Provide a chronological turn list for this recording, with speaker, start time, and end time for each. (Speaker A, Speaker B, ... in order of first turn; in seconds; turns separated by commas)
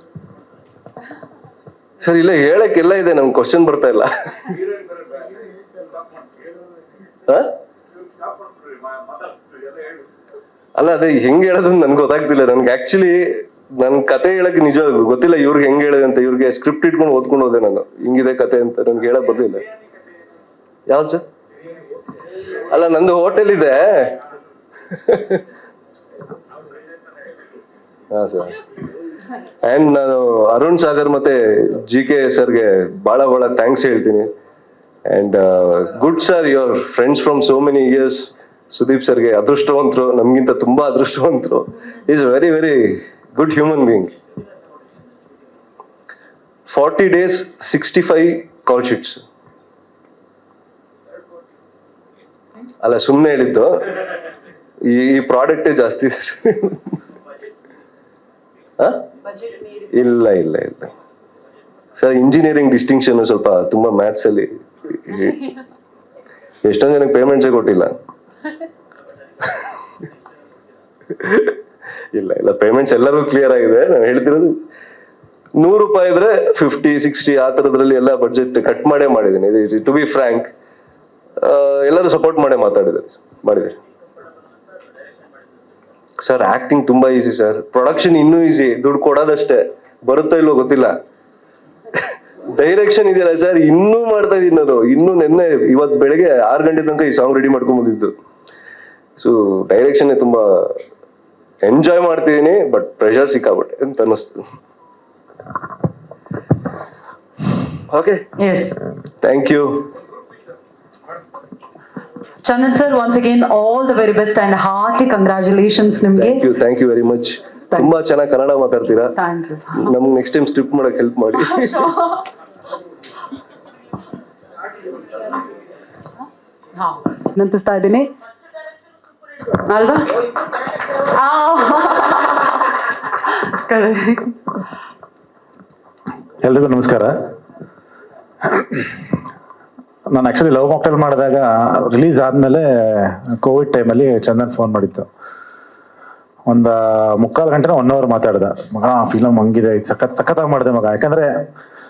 Speaker A: 2.0-4.6, Speaker A: 7.3-7.5, Speaker A: 10.8-13.2, Speaker A: 13.8-19.7, Speaker A: 20.9-21.2, Speaker A: 22.5-24.2, Speaker A: 24.9-25.4, Speaker A: 28.1-28.6, Speaker A: 29.6-34.3, Speaker A: 35.1-44.1, Speaker A: 46.7-49.2, Speaker A: 52.8-54.0, Speaker A: 54.9-57.0, Speaker A: 58.8-59.1, Speaker A: 59.7-60.9, Speaker A: 62.0-65.6, Speaker A: 66.6-67.9, Speaker A: 71.2-71.5, Speaker A: 72.1-74.5, Speaker A: 75.6-80.5, Speaker A: 81.4-83.8, Speaker A: 86.2-90.9, Speaker A: 91.9-98.1, Speaker A: 99.2-100.8, Speaker A: 101.6-104.4, Speaker A: 107.9-108.2, Speaker B: 108.4-108.8, Speaker A: 109.2-109.9, Speaker B: 112.4-116.5, Speaker A: 116.2-119.1, Speaker B: 119.1-119.9, Speaker A: 119.8-121.9, Speaker B: 126.8-128.1, Speaker B: 129.5-130.2, Speaker B: 130.8-134.4, Speaker C: 136.4-137.1, Speaker C: 140.1-145.1, Speaker C: 146.5-151.3